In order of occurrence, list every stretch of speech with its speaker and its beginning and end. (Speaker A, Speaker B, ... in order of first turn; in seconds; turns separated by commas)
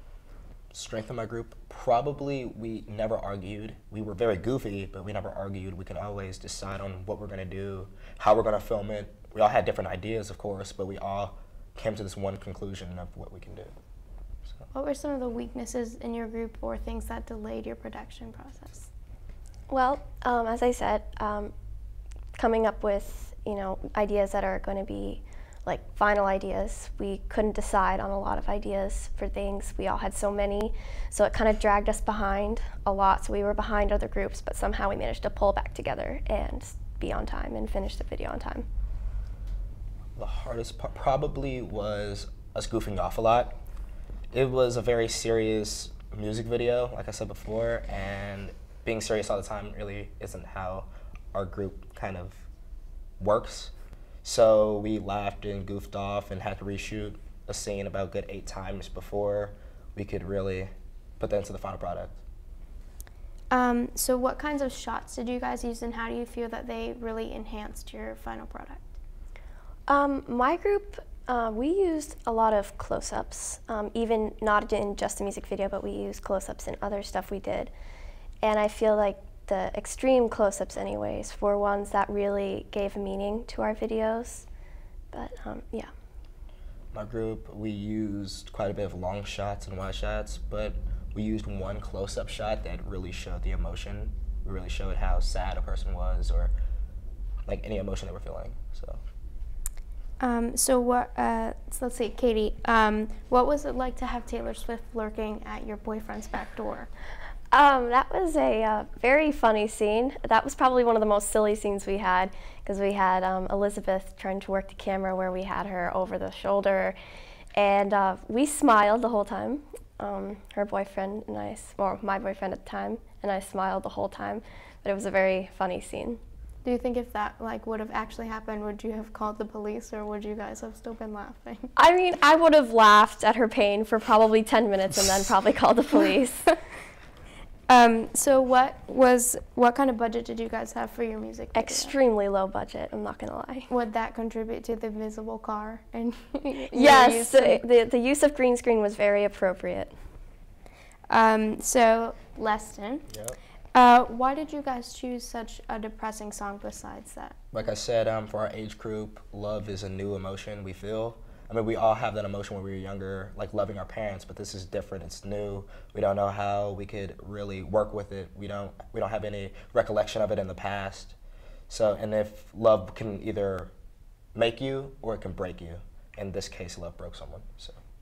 Speaker A: 0.7-13.7, Speaker B: 14.7-18.9, Speaker C: 19.7-21.5, Speaker C: 22.4-38.6, Speaker A: 40.1-43.6, Speaker A: 44.3-52.5, Speaker A: 53.2-53.7, Speaker A: 54.2-62.2, Speaker B: 63.5-68.9, Speaker C: 69.9-77.7, Speaker C: 78.4-84.5, Speaker C: 85.1-85.9, Speaker A: 86.9-96.5, Speaker A: 97.5-99.0, Speaker B: 100.2-106.9, Speaker C: 107.5-117.0, Speaker C: 117.5-126.2, Speaker B: 126.6-131.7, Speaker C: 131.8-136.5, Speaker B: 137.7-141.9, Speaker C: 141.5-143.7, Speaker B: 143.7-147.6, Speaker C: 146.7-149.9, Speaker B: 151.1-153.0, Speaker A: 153.1-153.4, Speaker B: 153.7-157.4, Speaker A: 157.5-171.2, Speaker A: 171.7-173.7, Speaker A: 174.3-177.8